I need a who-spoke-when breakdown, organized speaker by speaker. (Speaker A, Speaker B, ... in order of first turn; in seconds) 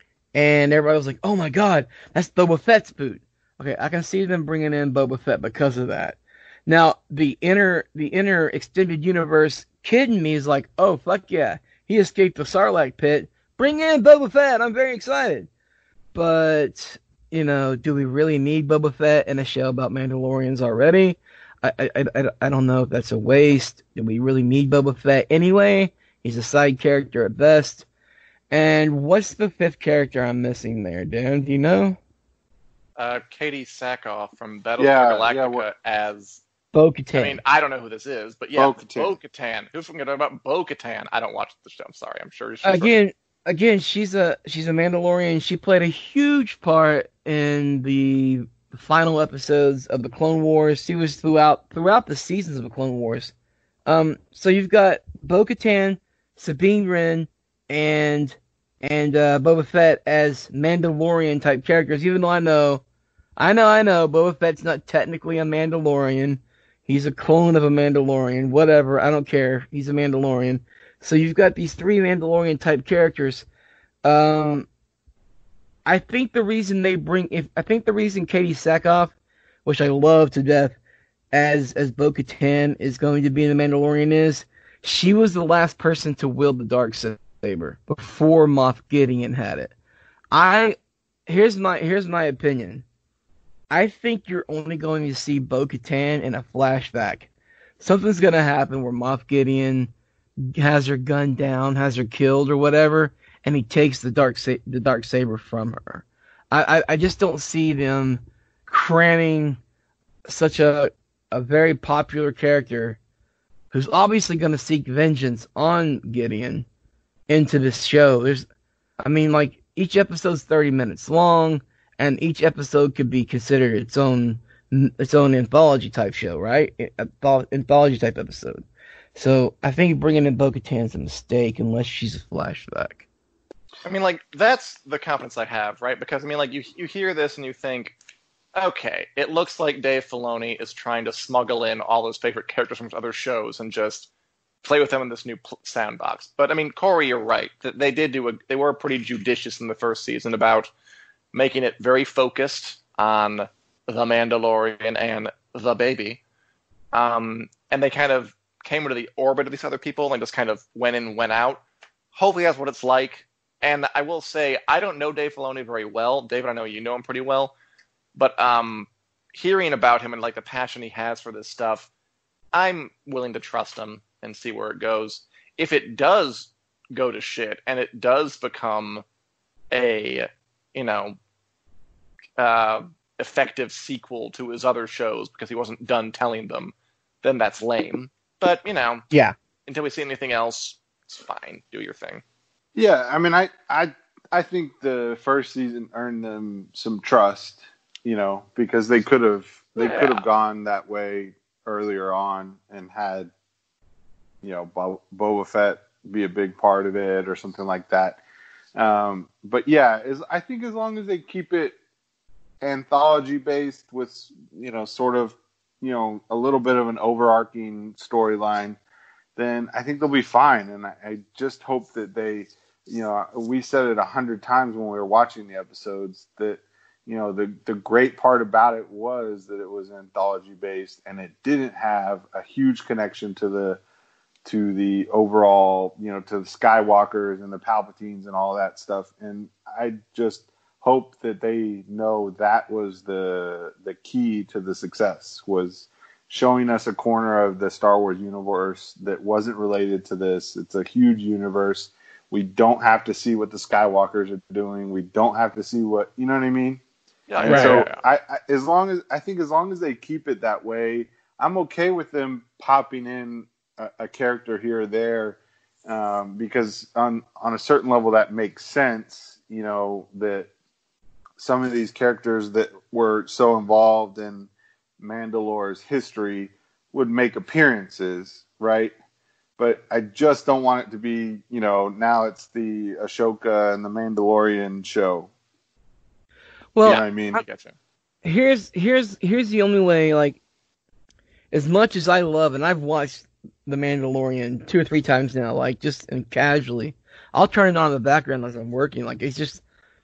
Speaker A: 0.3-15.5, 16.1-27.8, 28.5-32.0, 36.7-37.4, 42.6-53.3, 53.9-62.8, 63.4-73.5, 74.0-74.7, 75.8-79.1, 79.6-80.8, 81.3-89.7, 90.3-90.7, 91.3-92.8, 93.7-97.3, 97.8-99.9, 100.4-109.6, 110.3-113.0, 113.7-116.7, 117.3-118.5, 119.0-128.6, 129.1-133.1, 257.4-257.8, 286.8-287.4, 288.2-290.4, 291.5-299.6
Speaker B: 33.0-36.4, 37.1-42.9, 133.8-137.9, 138.5-144.1, 144.6-150.7, 151.3-156.2, 156.9-161.6, 162.1-167.5, 168.1-171.9, 172.5-179.0, 179.7-181.2, 182.4-189.1, 189.7-192.2, 199.8-200.2, 257.3-258.0, 286.8-287.7
Speaker C: 34.8-35.6, 38.5-39.2, 192.7-203.3, 204.4-208.2, 208.7-211.8, 212.6-218.8, 219.3-233.8, 234.4-256.8, 257.4-270.5, 271.4-278.9, 279.6-285.3, 286.8-287.4